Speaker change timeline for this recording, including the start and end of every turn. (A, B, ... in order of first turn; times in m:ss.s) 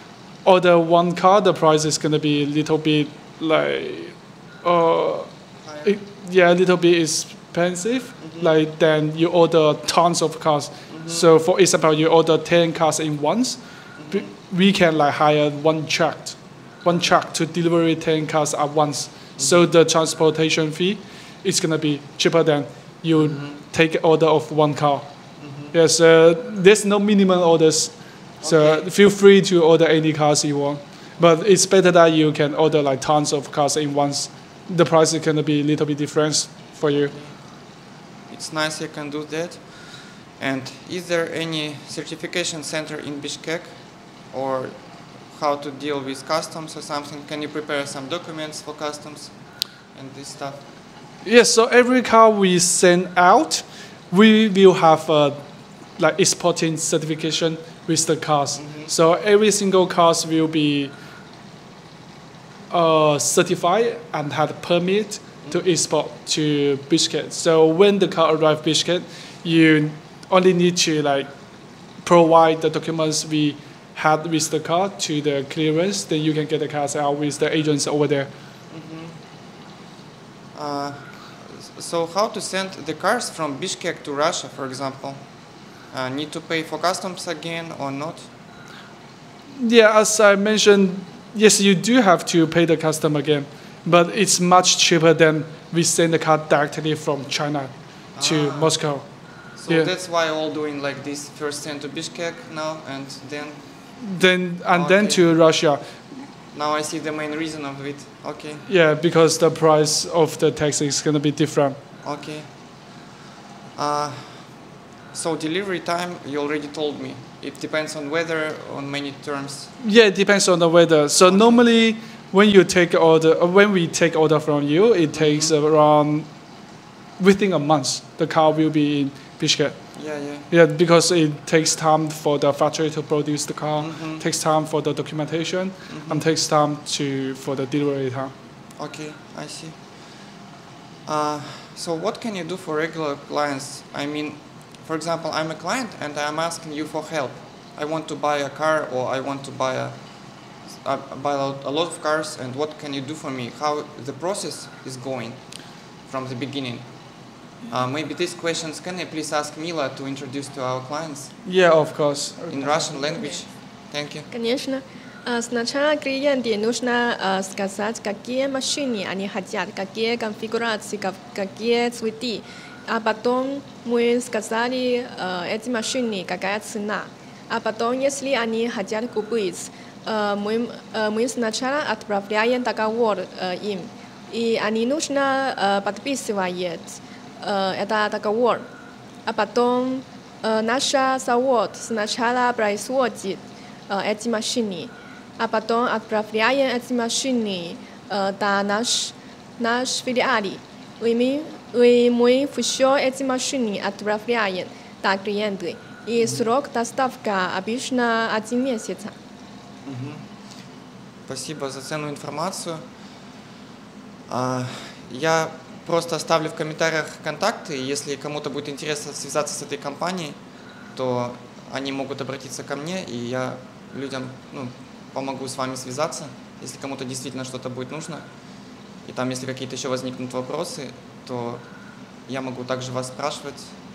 0:00.4-0:05.3 A
0:05.6-0:06.0 B
0:05.8-0:25.1 A
0:08.2-0:08.5 B
0:10.9-0:11.3 B
0:14.0-0:14.3 B
0:19.4-0:19.7 B
0:23.2-0:23.5 B
0:25.4-0:25.7 B
0:25.7-0:37.1 A
0:28.4-0:28.9 B
0:36.9-0:49.4 B
0:49.9-0:50.6 B
0:51.2-0:55.4 A
0:56.0-1:00.9 A
0:58.6-0:58.9 B
1:02.7-1:11.3 A
1:12.0-1:18.3 A
1:18.7-1:19.2 B
1:20.5-1:25.2 B
1:25.8-1:28.3 B
1:29.6-1:39.1 A
1:33.9-1:34.2 B
1:38.1-1:38.8 B
1:39.5-1:43.7 B
1:44.0-1:46.0 A
1:44.7-1:45.2 B
1:46.5-1:48.6 B
1:48.7-1:51.8 A
1:52.0-1:52.9 B
1:53.8-1:59.7 B
1:59.8-2:06.3 A
2:01.2-2:01.6 B
2:05.1-2:05.5 B
2:07.2-2:18.3 A
2:09.9-2:10.5 B
2:13.8-2:14.2 B
2:15.9-2:16.2 B
2:18.8-2:20.4 B
2:21.0-2:36.9 B
2:37.6-2:41.3 B
2:41.4-2:43.1 A
2:42.5-2:44.3 B
2:44.3-3:08.6 C
3:09.2-3:29.1 C
3:26.2-3:26.5 B
3:29.8-3:30.6 B
3:31.2-3:32.9 B
3:34.3-3:40.4 B
3:40.9-3:48.3 B
3:49.0-3:51.6 B
3:52.2-3:53.8 B